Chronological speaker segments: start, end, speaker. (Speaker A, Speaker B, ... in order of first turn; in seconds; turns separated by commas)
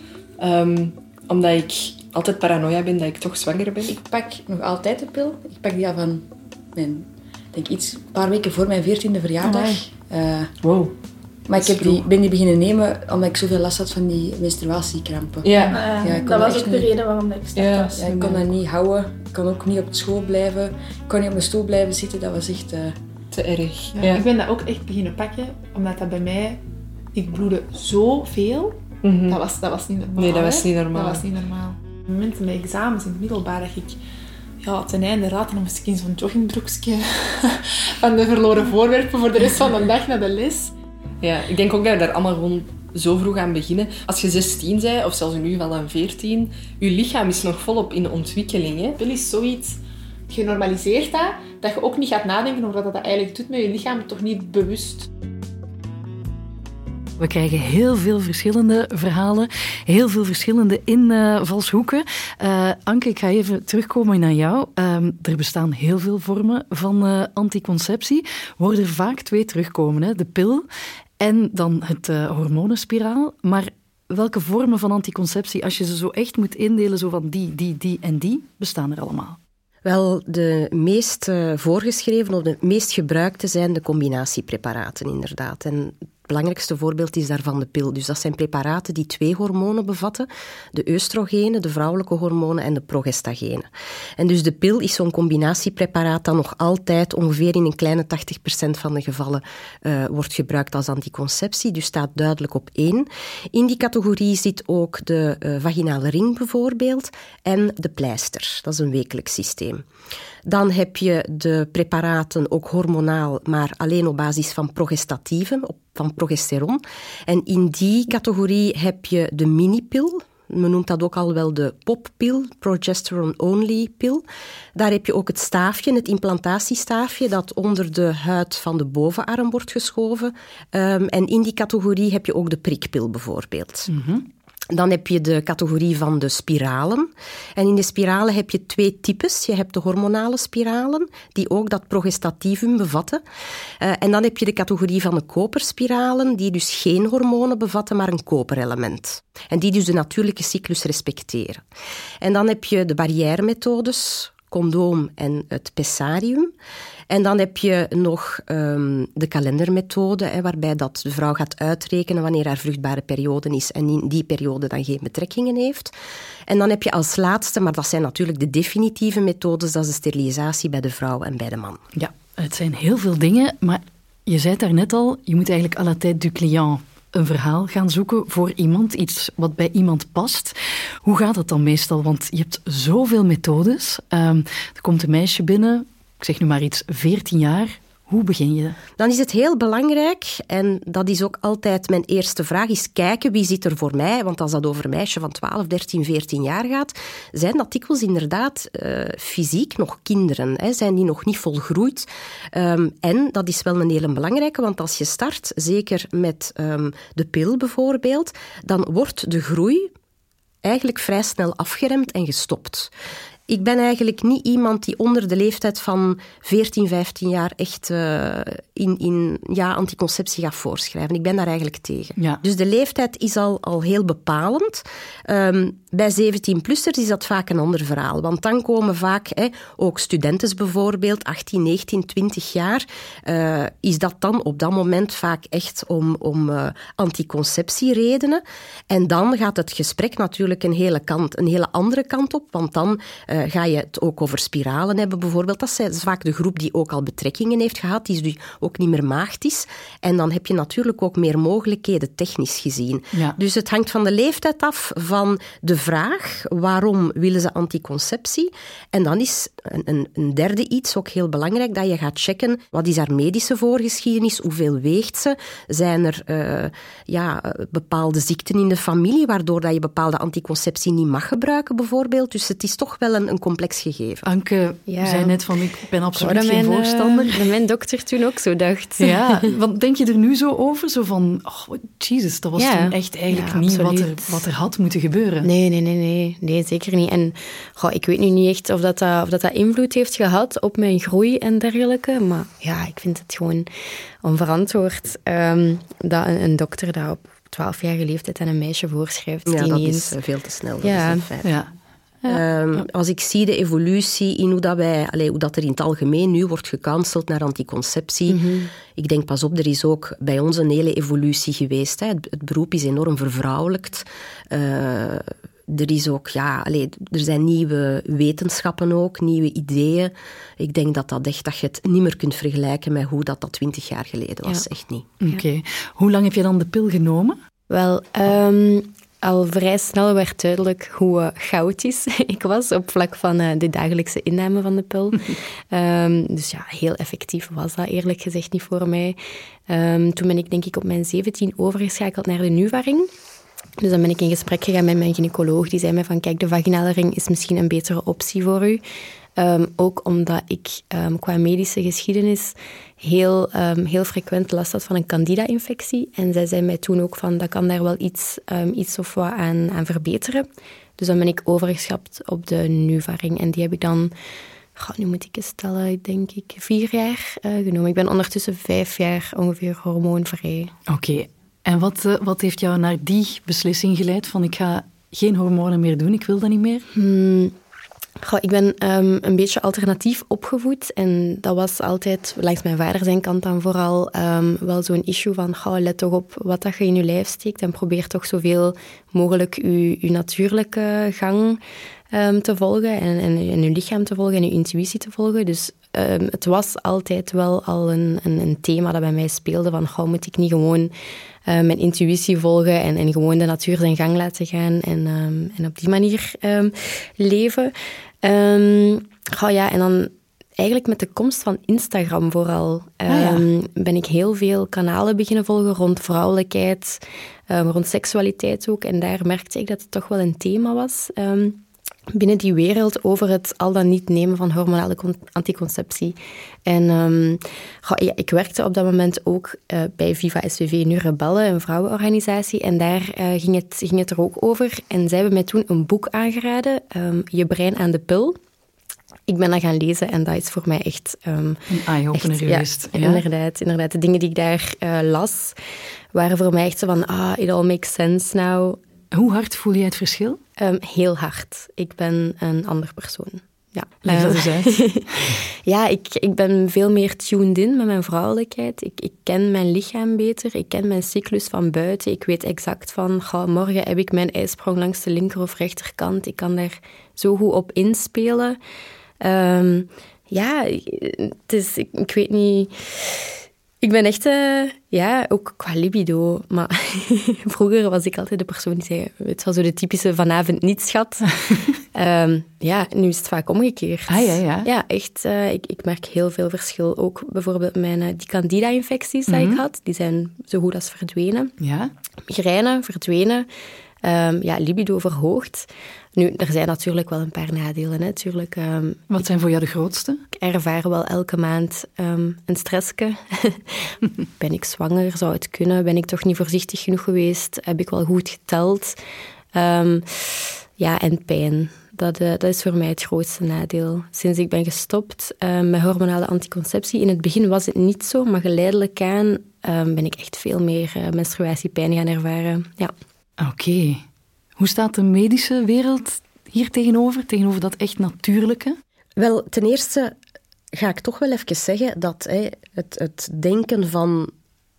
Speaker A: 0.4-4.0, Speaker B: 4.0-10.5, Speaker A: 10.6-10.9, Speaker B: 11.5-17.0, Speaker A: 11.6-12.1, Speaker A: 15.4-15.9, Speaker C: 15.7-18.4, Speaker A: 17.5-17.9, Speaker B: 17.8-23.0, Speaker A: 23.3-24.2, Speaker C: 23.9-26.6, Speaker C: 27.1-34.0, Speaker A: 29.0-29.4, Speaker A: 30.2-31.3, Speaker C: 34.6-40.7, Speaker A: 41.2-49.0, Speaker C: 49.0-55.1, Speaker D: 57.2-70.7, Speaker D: 71.2-79.4, Speaker E: 79.8-109.8, Speaker E: 110.5-124.2, Speaker E: 124.8-133.9, Speaker D: 133.9-134.2, Speaker E: 134.7-143.2, Speaker E: 143.8-151.6, Speaker E: 152.2-156.5, Speaker E: 157.1-165.9, Speaker E: 166.5-171.8, Speaker D: 172.0-188.8, Speaker E: 189.0-209.9, Speaker E: 210.6-212.9, Speaker E: 213.5-274.2, Speaker D: 274.2-277.5, Speaker F: 274.9-275.4, Speaker F: 276.1-279.5, Speaker D: 279.0-285.5, Speaker F: 282.6-284.4, Speaker F: 285.4-293.7, Speaker F: 294.2-300.1, Speaker E: 299.5-301.6, Speaker F: 300.8-301.2, Speaker D: 301.4-301.7, Speaker E: 302.2-308.4, Speaker F: 308.3-308.7, Speaker E: 308.9-325.1, Speaker D: 325.2-327.4, Speaker F: 327.7-339.2, Speaker F: 339.7-343.1, Speaker F: 343.8-348.8, Speaker F: 349.4-360.5, Speaker F: 361.0-364.1, Speaker F: 364.8-370.7, Speaker D: 370.9-376.9, Speaker F: 376.9-377.5, Speaker F: 378.2-391.6, Speaker F: 392.1-400.9, Speaker F: 401.5-421.6, Speaker D: 413.1-413.4, Speaker F: 422.1-438.4, Speaker F: 439.3-441.6, Speaker D: 441.7-443.2, Speaker F: 442.1-445.6, Speaker F: 446.1-448.8, Speaker D: 449.1-450.4, Speaker F: 450.6-468.6, Speaker D: 454.1-455.4, Speaker F: 469.2-481.4, Speaker F: 481.9-491.5, Speaker D: 484.1-484.7, Speaker D: 489.3-489.6, Speaker D: 491.6-491.9, Speaker F: 492.3-493.5, Speaker F: 494.0-499.1, Speaker D: 499.1-500.2, Speaker F: 500.3-509.0, Speaker F: 509.5-522.9, Speaker D: 523.4-524.0, Speaker D: 524.6-528.8, Speaker E: 529.2-530.1, Speaker E: 530.7-534.3